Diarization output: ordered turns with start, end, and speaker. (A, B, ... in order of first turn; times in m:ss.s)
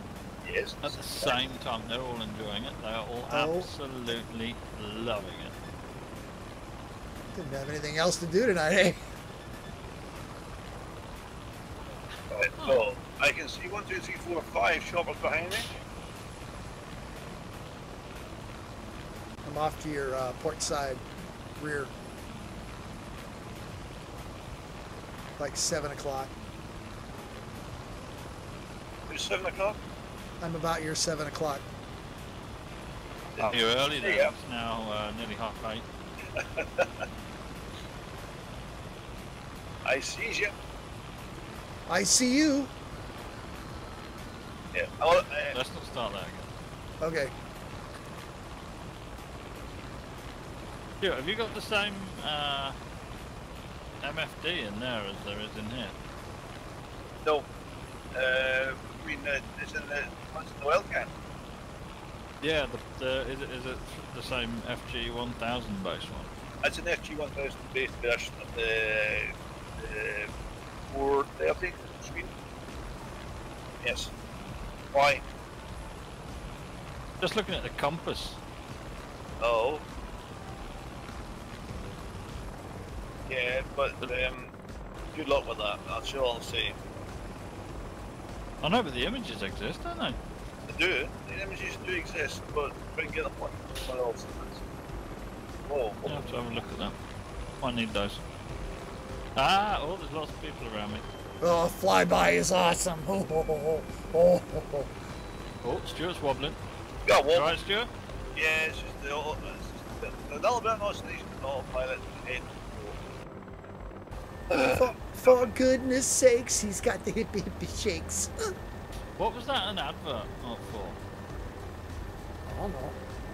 0:00.4-0:01.4 A
0:00.8-0:05.6 B
0:03.3-0:03.7 C
0:07.3-0:09.0 C
0:12.3-0:15.7 A
0:19.4-0:21.0 C
0:21.6-0:21.9 C
0:25.4-0:26.3 C
0:29.1-0:29.8 A
0:30.4-0:31.6 C
0:33.4-0:34.3 A
0:33.4-0:35.9 B
0:36.4-0:37.1 A
0:39.8-0:40.5 A
0:41.9-0:42.7 C
0:44.7-0:45.6 A
0:45.5-0:46.5 B
0:47.0-0:47.3 C
0:51.0-0:52.8 B
0:54.0-0:56.0 B
0:58.1-1:01.1 A
1:02.4-1:06.3 B
1:06.6-1:10.3 A
1:10.9-1:12.3 A
1:13.8-1:14.1 A
1:14.9-1:15.2 A
1:17.2-1:18.4 B
1:19.4-1:19.8 A
1:23.3-1:24.5 A
1:25.1-1:26.8 A
1:28.6-1:30.2 B
1:30.7-1:34.6 A
1:35.6-1:36.3 A
1:36.1-1:37.0 B
1:37.6-1:38.2 B
1:39.4-1:41.0 B
1:41.4-1:44.9 C
1:45.6-1:46.6 B
1:47.1-1:47.6 A
1:47.3-1:47.9 B
1:48.4-1:53.0 A
1:54.5-1:55.5 A
1:54.5-1:58.5 C
1:59.2-2:01.0 B
2:02.5-2:03.0 C